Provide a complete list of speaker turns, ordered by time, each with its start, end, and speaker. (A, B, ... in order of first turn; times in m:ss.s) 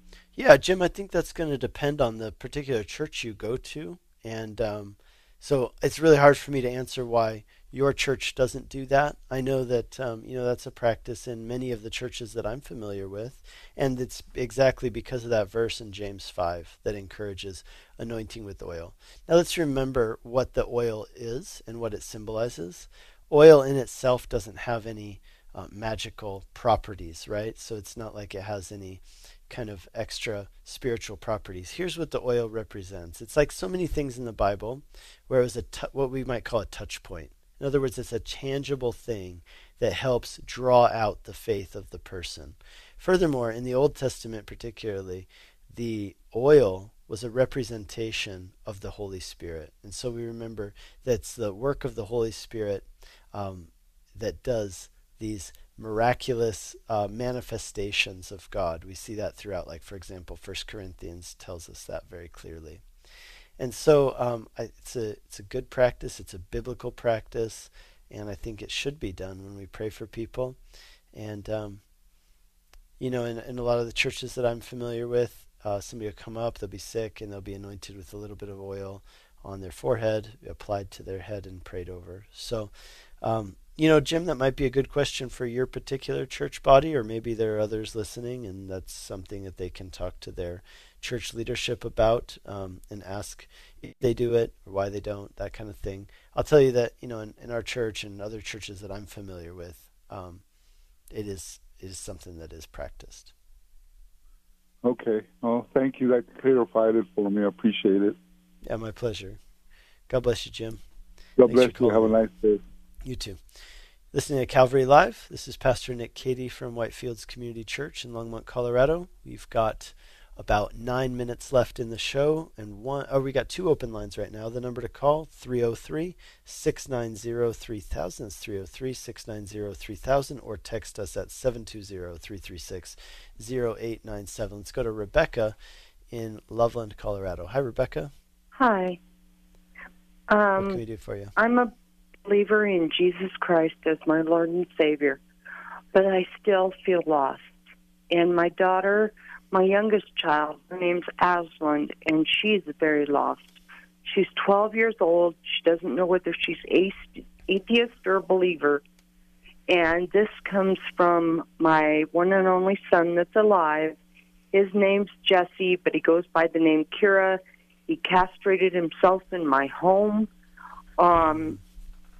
0:00.4-1:02.8 A
1:03.6-1:10.6 A
1:11.1-1:11.8 A
1:13.0-1:40.4 A
1:41.1-1:43.3 A
1:44.8-1:48.2 B
1:48.6-1:49.4 A
1:50.1-1:50.8 A
1:51.4-1:52.6 B
1:51.4-1:52.2 A
1:53.0-1:53.4 A
1:54.1-2:15.6 A
2:16.1-2:18.1 A
2:18.5-2:19.0 C
2:20.3-2:20.8 C
2:20.6-2:21.3 A
2:21.4-2:21.7 C
2:22.2-2:25.2 C
2:25.9-2:27.5 C
2:28.1-2:38.8 C
2:39.7-2:44.0 C
2:44.5-2:50.3 C
2:51.0-2:51.6 C
2:51.2-2:51.6 A